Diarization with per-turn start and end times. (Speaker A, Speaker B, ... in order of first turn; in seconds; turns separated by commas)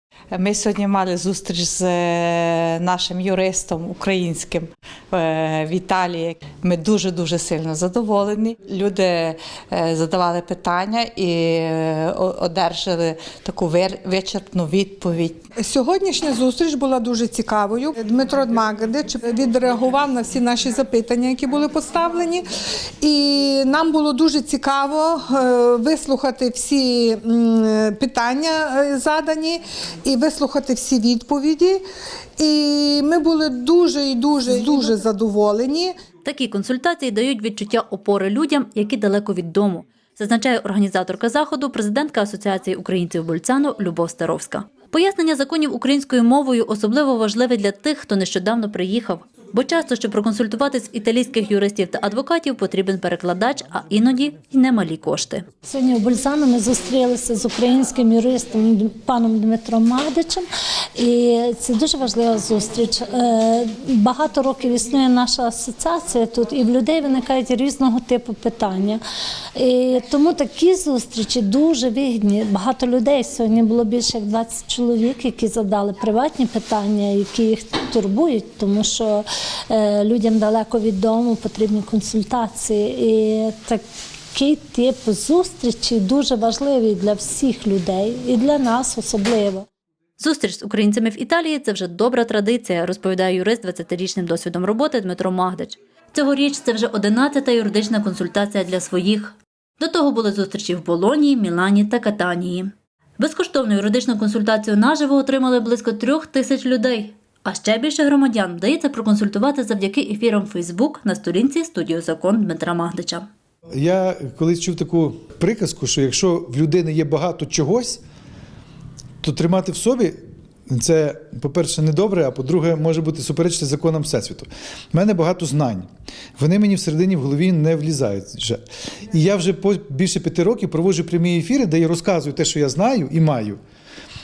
Speaker A: 0.3-15.5, Speaker B: 15.6-22.4, Speaker B: 23.0-31.8, Speaker B: 32.4-35.9, Speaker C: 36.2-55.5, Speaker D: 55.6-69.0, Speaker D: 69.5-83.8, Speaker D: 84.3-89.7, Speaker C: 90.2-113.2, Speaker E: 113.7-118.0, Speaker E: 119.2-120.2, Speaker E: 120.7-133.6